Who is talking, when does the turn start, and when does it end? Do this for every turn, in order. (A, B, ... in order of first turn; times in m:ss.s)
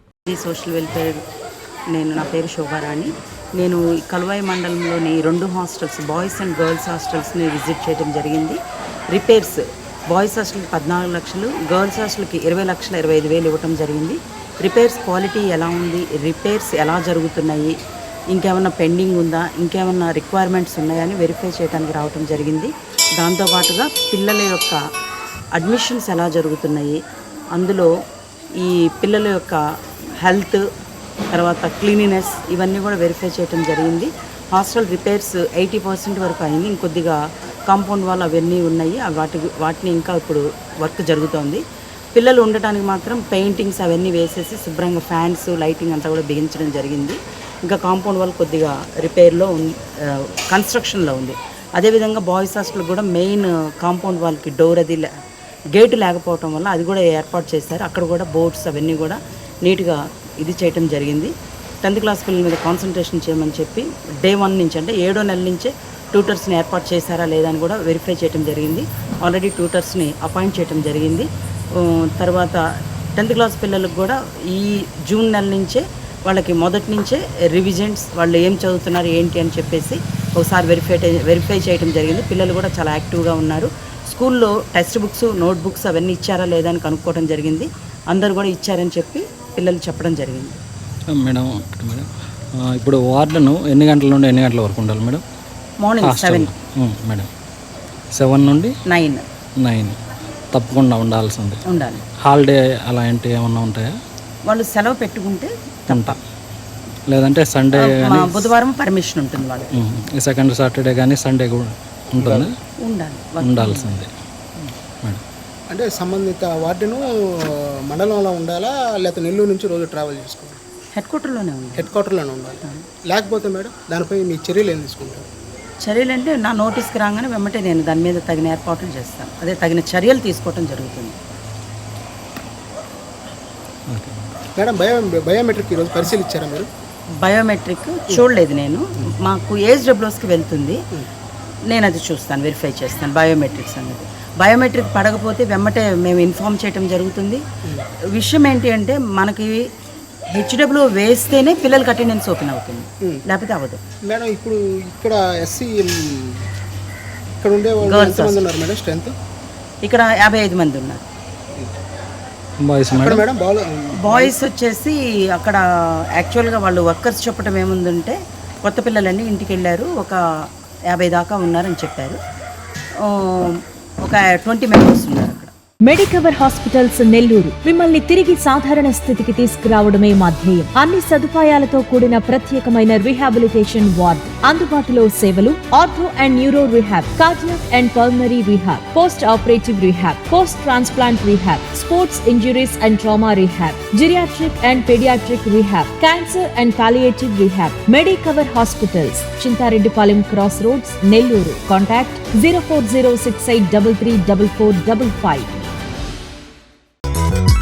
0:00.3-0:01.2 A
0:01.9-0:08.6 A
0:09.1-0:17.7 A
0:18.3-0:24.8 A
0:25.6-0:27.0 A
0:27.6-0:27.9 A
0:28.6-0:29.6 A
0:30.2-0:30.6 A
0:31.3-0:41.6 A
0:42.1-0:55.1 A
0:55.8-1:01.3 A
1:01.8-1:12.6 A
1:13.2-1:30.6 A
1:31.1-1:32.1 B
1:32.6-1:35.2 B
1:35.8-1:36.5 A
1:36.0-1:37.3 B
1:38.1-1:38.7 B
1:38.9-1:39.2 A
1:39.6-1:40.0 B
1:40.5-1:41.6 B
1:41.7-1:42.0 A
1:42.2-1:43.9 B
1:44.5-1:46.2 A
1:45.9-1:46.2 B
1:47.1-1:48.5 B
1:47.8-1:49.7 A
1:49.8-1:52.6 B
1:52.2-1:52.5 C
1:52.8-1:54.0 A
1:53.4-1:54.1 B
1:55.7-2:00.6 C
2:01.0-2:01.9 A
2:01.8-2:05.3 C
2:05.8-2:11.2 A
2:13.9-2:14.3 B
2:14.6-2:16.7 C
2:17.2-2:20.8 A
2:21.7-2:27.4 A
2:28.1-2:29.6 A
2:30.3-2:33.8 A
2:34.0-2:36.4 C
2:37.4-2:39.2 C
2:37.8-2:38.4 A
2:39.8-2:41.0 A
2:42.6-2:43.2 B
2:42.9-2:44.4 C
2:44.0-2:45.6 A
2:46.2-2:50.2 A
2:50.9-2:52.2 A
2:53.0-2:55.5 A
2:55.8-3:25.5 D